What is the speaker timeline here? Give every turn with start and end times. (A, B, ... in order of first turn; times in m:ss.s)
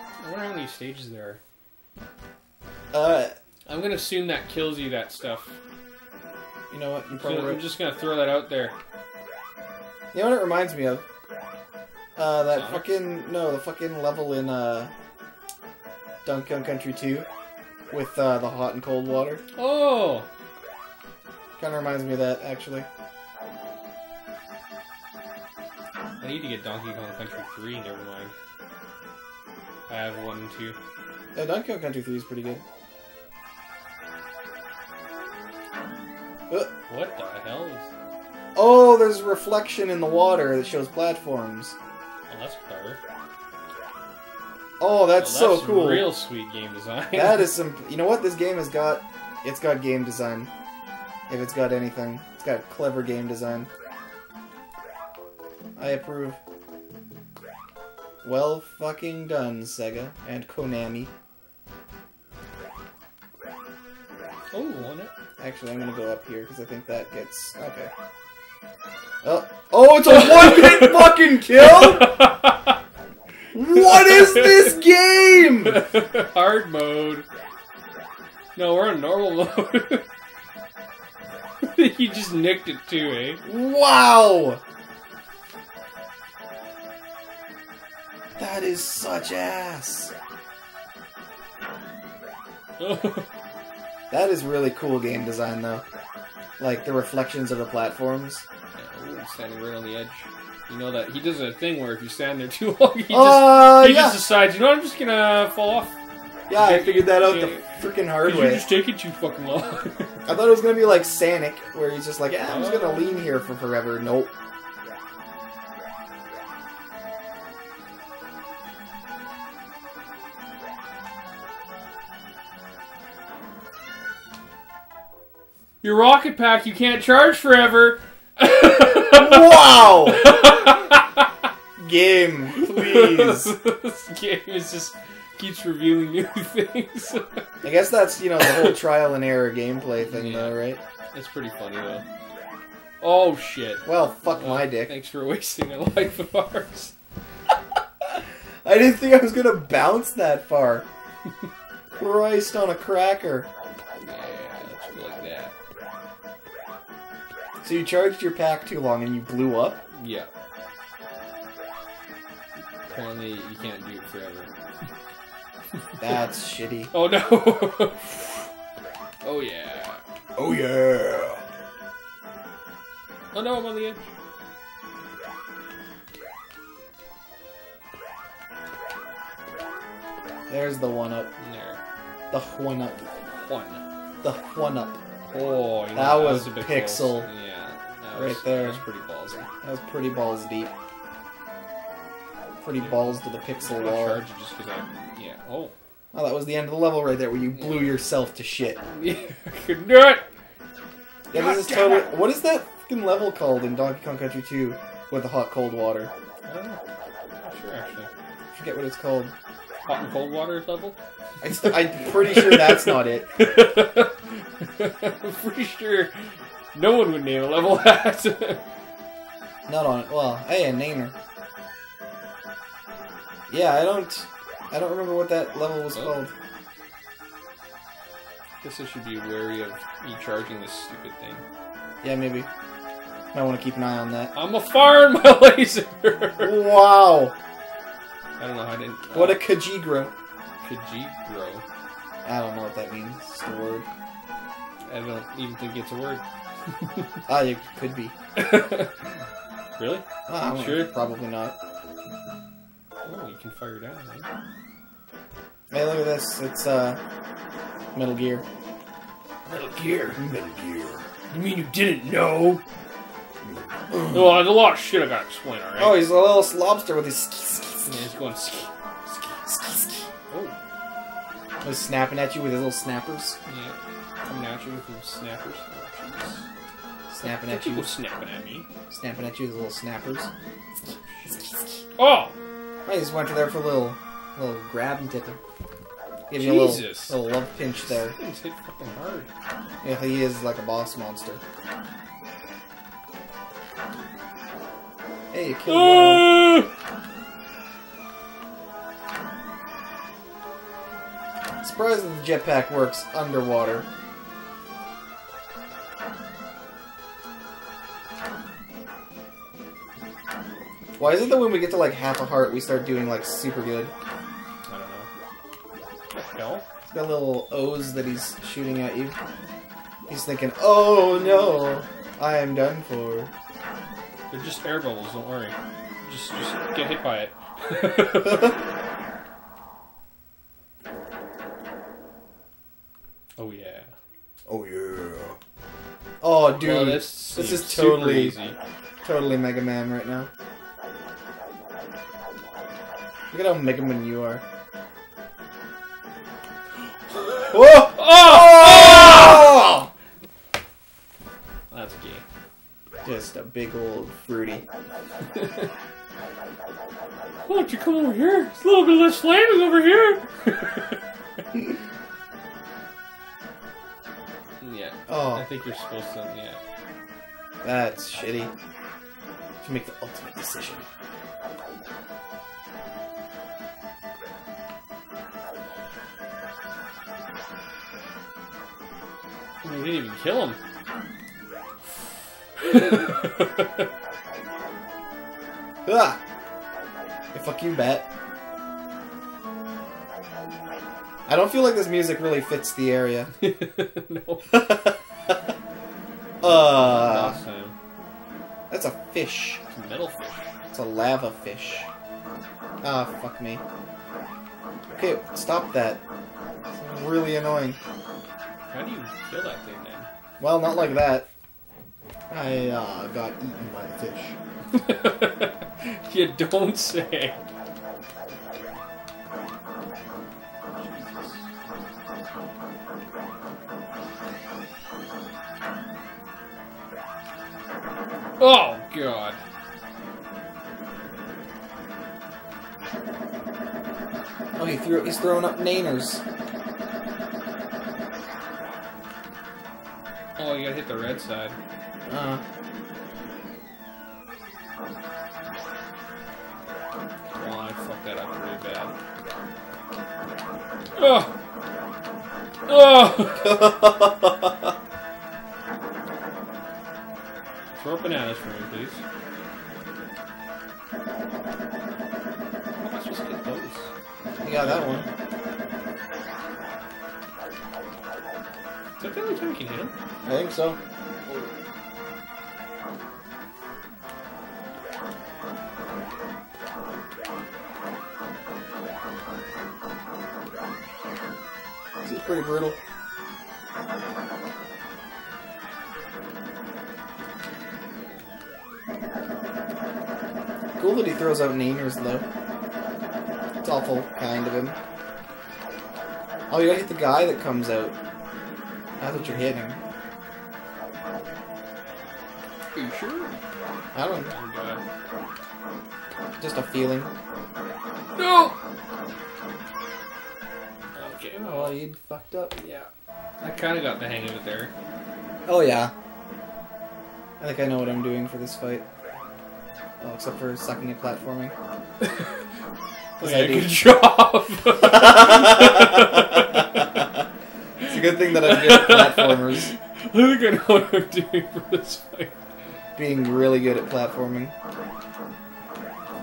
0:00.2-0:01.4 A
0:02.9-0:03.3 B
0:03.7-0:05.5 A
0:06.7-0:07.7 B
0:07.2-0:08.8 A
0:10.1-0:11.0 B
0:12.2-0:14.9 B
0:12.5-0:12.9 A
0:16.2-0:17.3 B
0:17.9-0:19.4 B
0:19.6-0:20.3 A
0:21.6-0:22.9 B
0:26.2-0:28.3 A
0:29.9-0:30.8 A
0:31.4-0:32.6 B
0:36.9-0:37.9 A
0:38.6-0:41.8 B
0:42.3-0:43.0 A
0:44.8-0:46.1 B
0:45.2-0:47.5 A
0:47.1-0:50.5 B
0:51.3-0:53.7 B
0:55.8-0:56.4 B
0:58.2-1:01.1 B
1:04.5-1:05.1 A
1:05.4-1:07.9 B
1:09.2-1:12.3 B
1:11.6-1:12.8 A
1:13.5-1:15.8 B
1:13.7-1:14.8 A
1:15.6-1:17.3 A
1:18.6-1:20.0 A
1:21.6-1:23.4 A
1:23.4-1:24.6 B
1:28.4-1:30.1 B
1:32.8-1:33.3 A
1:34.1-1:35.8 B
1:36.6-1:38.4 B
1:38.8-1:46.0 A
1:43.1-1:44.2 B
1:46.5-1:48.7 B
1:46.6-1:47.7 A
1:48.2-1:50.2 A
1:50.3-1:54.3 B
1:52.4-1:53.2 A
2:05.8-2:11.5 A
2:09.1-2:10.3 B
2:11.8-2:13.5 B
2:12.6-2:17.4 A
2:17.6-2:20.8 B
2:18.4-2:18.8 A
2:20.0-2:22.0 A
2:23.0-2:26.9 A
2:23.8-2:24.9 B
2:28.1-2:30.9 B
2:32.0-2:33.5 B
2:34.0-2:35.5 A
2:37.6-2:39.8 B
2:39.9-2:40.3 A
2:42.9-2:44.5 A
2:46.0-2:46.9 B
2:46.9-2:48.5 A
2:49.2-2:50.0 A
2:50.4-2:51.4 B
2:53.3-2:54.1 A
3:00.5-3:01.3 B
3:01.4-3:01.8 A
3:02.3-3:03.1 B
3:03.3-3:03.8 A
3:04.2-3:05.0 B
3:05.3-3:09.5 A
3:05.9-3:07.3 B
3:08.1-3:08.8 B
3:09.6-3:10.7 B
3:12.6-3:14.2 B
3:12.8-3:15.7 A
3:16.1-3:18.8 B
3:17.6-3:17.9 A
3:18.9-3:20.2 A
3:21.3-3:26.1 B
3:21.3-3:22.2 A
3:26.5-3:26.8 A
3:27.4-3:28.1 A
3:28.5-3:29.3 B
3:29.9-3:31.0 A
3:31.4-3:33.3 B
3:31.6-3:36.2 A
3:36.7-3:38.6 A
3:39.7-3:41.2 B
3:43.5-3:46.3 B
3:48.6-3:51.4 A
3:52.0-3:52.5 B
3:53.3-3:54.3 B
3:54.4-3:56.7 A
3:56.4-3:57.4 B
3:58.4-3:59.5 A
3:59.1-4:00.1 B
4:00.6-4:01.6 A
4:02.2-4:03.9 B
4:04.9-4:06.2 A
4:06.8-4:07.1 A
4:07.3-4:08.2 B
4:08.4-4:09.2 A
4:09.8-4:11.0 A
4:10.3-4:11.6 B
4:13.0-4:14.3 A
4:15.7-4:17.0 B
4:17.9-4:18.4 B
4:19.5-4:20.2 A
4:20.2-4:21.1 B
4:21.3-4:22.6 A
4:23.4-4:24.4 B
4:24.1-4:26.1 A
4:25.8-4:28.1 B
4:27.8-4:29.4 A
4:29.4-4:30.1 B
4:30.3-4:30.6 A
4:31.6-4:33.4 B
4:33.5-4:36.4 A
4:37.1-4:37.9 B
4:37.2-4:38.7 A
4:38.9-4:40.3 B
4:41.2-4:41.7 B
4:42.0-4:42.4 A
4:42.8-4:45.4 B
4:46.3-4:48.2 B
4:46.3-4:47.2 A
4:47.8-4:49.3 A
4:49.8-4:51.4 B
4:55.3-4:56.6 B
4:55.6-4:56.7 A
5:01.6-5:03.9 B
5:11.0-5:13.9 B
5:14.7-5:15.1 A
5:16.1-5:16.6 A
5:16.9-5:19.2 B
5:20.1-5:23.3 B
5:20.9-5:21.8 A
5:24.3-5:28.6 A
5:33.4-5:33.9 A
5:34.5-5:35.4 B
5:36.2-5:38.4 B
5:36.5-5:38.6 A
5:39.0-5:40.3 B
5:43.3-5:44.4 B
5:47.1-5:49.5 A
5:47.5-5:49.9 B
5:51.7-5:52.2 A
5:53.0-5:54.6 B
5:55.3-5:55.7 A
5:57.4-6:01.0 A
6:04.6-6:06.6 A
6:05.1-6:05.5 B
6:07.6-6:08.5 B
6:09.6-6:10.8 B
6:19.6-6:20.6 A
6:22.6-6:23.9 A
6:25.9-6:26.2 B
6:27.3-6:28.1 B
6:31.3-6:33.3 B
6:33.4-6:34.9 A
6:34.5-6:35.4 B
6:36.4-6:37.4 B
6:36.4-6:37.8 A
6:38.7-6:39.6 B
6:39.7-6:40.5 A
6:40.7-6:41.9 B
6:42.8-6:43.6 B
6:45.0-6:46.0 B
6:46.7-6:47.8 B
6:48.7-6:50.1 A
6:50.4-6:51.3 B
6:52.3-6:54.4 B
6:54.7-6:57.4 A
7:00.8-7:01.4 A
7:08.4-7:09.4 A
7:14.6-7:16.2 B
7:20.4-7:21.6 A
7:22.1-7:22.4 B
7:27.4-7:28.9 A
7:31.0-7:31.3 A
7:32.7-7:34.0 A
7:33.4-7:34.4 B
7:37.8-7:39.0 A
7:42.8-7:43.9 A
7:44.4-7:45.1 B
7:44.5-7:45.1 A
7:49.0-7:49.9 A
7:50.2-7:50.8 B
8:02.0-8:02.8 B
8:10.8-8:12.2 B
8:13.6-8:14.8 B
8:16.5-8:18.0 B
8:19.0-8:19.8 B
8:19.1-8:19.5 A
8:22.7-8:23.3 A
8:23.9-8:24.3 B
8:24.3-8:24.8 A
8:26.4-8:27.1 B
8:28.2-8:28.6 A
8:31.0-8:31.8 A
8:31.2-8:32.6 B
8:32.6-8:32.9 A
8:33.4-8:34.7 A
8:35.5-8:35.9 B
8:37.4-8:38.8 B
8:40.0-8:41.5 B
8:42.0-8:42.3 A
8:43.2-8:43.8 B
8:43.2-8:46.8 A
8:44.8-8:47.0 B
8:47.9-8:49.7 B
8:47.9-8:52.3 A
8:53.0-8:54.5 B